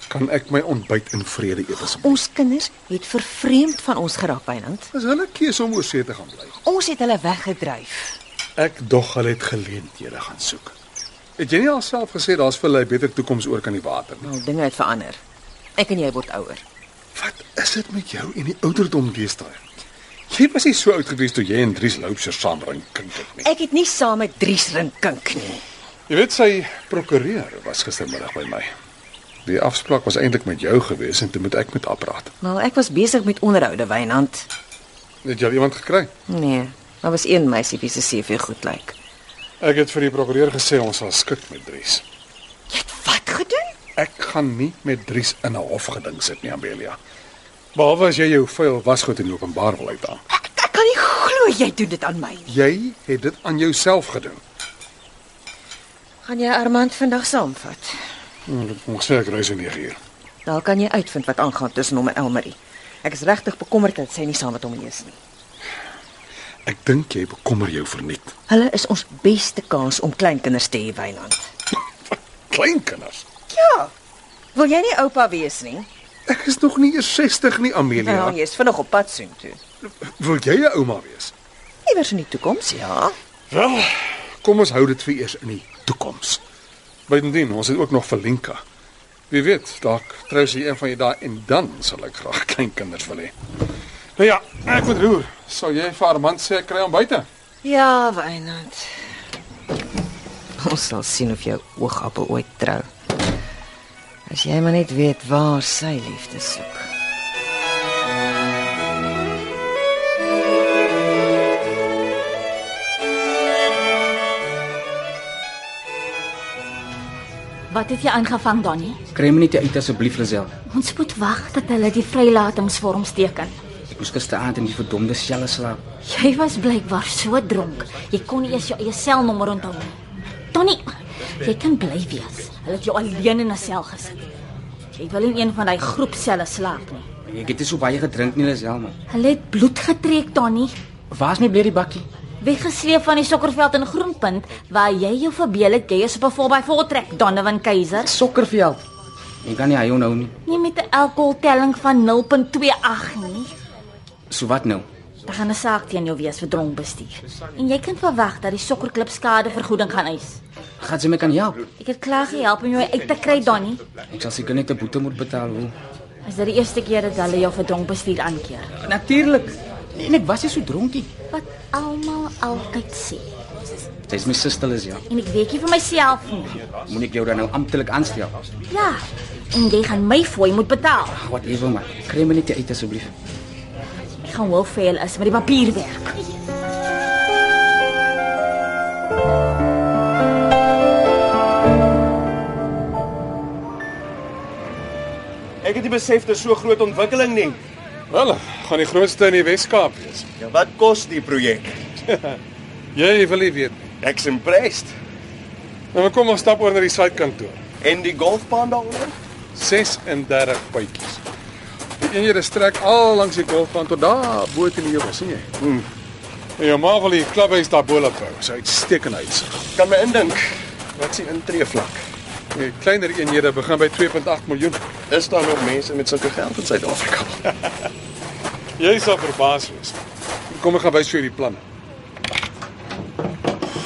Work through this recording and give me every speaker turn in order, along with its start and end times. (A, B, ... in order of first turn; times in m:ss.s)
0:00.1-0:02.2 A
0:01.8-0:04.9 B
0:04.9-0:06.6 A
0:06.6-0:08.2 B
0:08.6-0:10.8 A
0:11.4-0:14.3 A
0:14.2-0:15.2 B
0:15.8-0:16.6 B
0:17.2-0:19.7 A
0:20.3-0:23.5 A
0:23.4-0:25.6 B
0:26.1-0:28.7 A
0:29.4-0:32.3 A
0:32.4-0:34.5 B
0:35.2-0:36.1 A
0:36.3-0:39.0 B
0:39.6-0:42.0 A
0:42.7-0:43.7 B
0:44.0-0:47.0 A
0:47.8-0:50.2 A
0:50.3-0:52.5 B
0:52.5-0:54.4 A
0:56.2-0:58.0 B
0:58.5-1:00.0 A
1:00.5-1:05.2 B
1:06.7-1:08.3 A
1:08.5-1:11.5 B
1:12.5-1:13.3 A
1:13.5-1:13.9 B
1:14.6-1:15.9 B
1:16.3-1:18.4 A
1:18.0-1:19.6 B
1:19.9-1:21.3 A
1:21.9-1:23.2 B
1:23.5-1:26.4 A
1:27.1-1:28.6 A
1:29.3-1:33.3 A
1:34.2-1:37.3 A
1:37.6-1:38.9 B
1:40.6-1:42.9 B
1:44.3-1:46.9 B
1:57.7-1:59.0 C
1:59.1-2:00.5 D
2:00.7-2:03.6 C
2:03.9-2:05.8 D
2:06.0-2:10.0 C
2:10.5-2:14.2 C
2:14.9-2:17.1 C
2:17.3-2:19.0 D
2:19.1-2:20.7 C
2:21.1-2:22.1 D
2:22.4-2:28.1 C
2:28.0-2:28.8 D
2:29.4-2:30.3 D
2:30.4-2:33.5 C
2:34.3-2:34.9 D
2:35.3-2:40.4 C
2:40.8-2:41.7 D
2:41.8-2:43.8 C
2:44.1-2:45.7 D
2:46.2-2:48.7 C
2:48.8-2:51.1 D
2:51.3-2:53.3 C
2:54.1-2:55.0 D
2:55.1-2:56.5 C
2:56.7-2:58.3 D
2:58.7-3:01.2 C
3:01.2-3:03.1 D
3:04.2-3:06.2 C
3:15.6-3:17.6 E
3:18.1-3:20.3 A
3:20.4-3:21.8 E
3:22.1-3:22.4 A
3:23.0-3:23.9 A
3:24.0-3:24.9 E
3:25.9-3:27.6 A
3:27.8-3:29.2 E
3:29.6-3:31.2 A
3:32.0-3:35.6 A
3:36.6-3:39.7 A
3:39.8-3:42.0 E
3:42.5-3:44.8 A
3:45.1-3:47.4 E
3:48.8-3:50.0 A
3:50.5-3:51.6 A